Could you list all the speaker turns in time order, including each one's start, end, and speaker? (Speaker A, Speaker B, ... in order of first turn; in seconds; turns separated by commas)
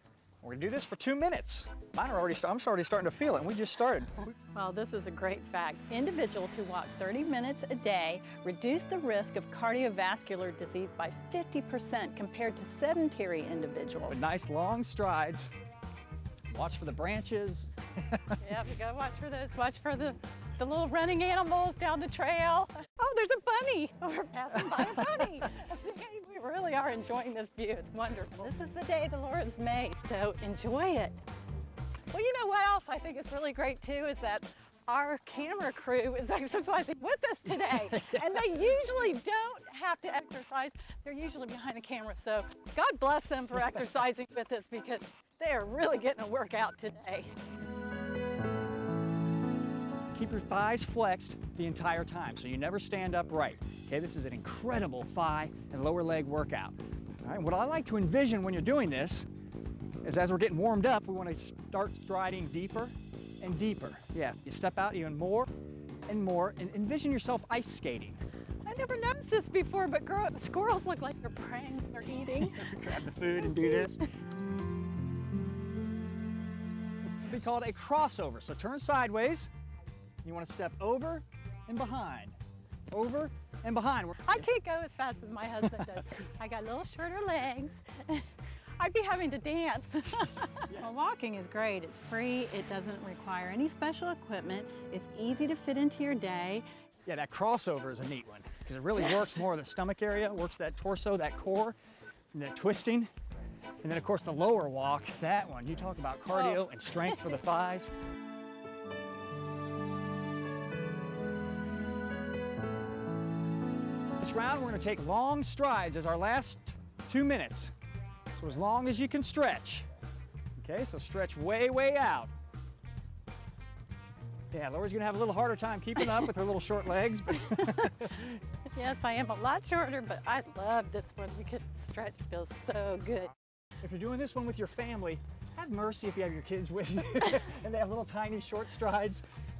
Speaker A: 0.4-4.3, Speaker B: 4.5-14.2, Speaker A: 14.1-15.5, Speaker A: 16.5-18.2, Speaker B: 18.4-31.2, Speaker B: 32.1-47.3, Speaker A: 37.9-38.3, Speaker A: 50.1-59.3, Speaker A: 60.0-65.5, Speaker A: 66.1-68.2, Speaker B: 68.6-74.1, Speaker A: 72.6-74.0, Speaker A: 77.2-79.5, Speaker A: 80.2-82.3, Speaker A: 82.9-84.4, Speaker B: 84.2-96.6, Speaker A: 97.0-101.7, Speaker A: 102.3-103.1, Speaker A: 103.8-107.9, Speaker B: 106.3-107.2, Speaker A: 114.2-117.7, Speaker A: 118.3-119.8, Speaker A: 120.6-122.3, Speaker A: 124.5-128.3, Speaker B: 127.3-133.3, Speaker A: 133.8-139.2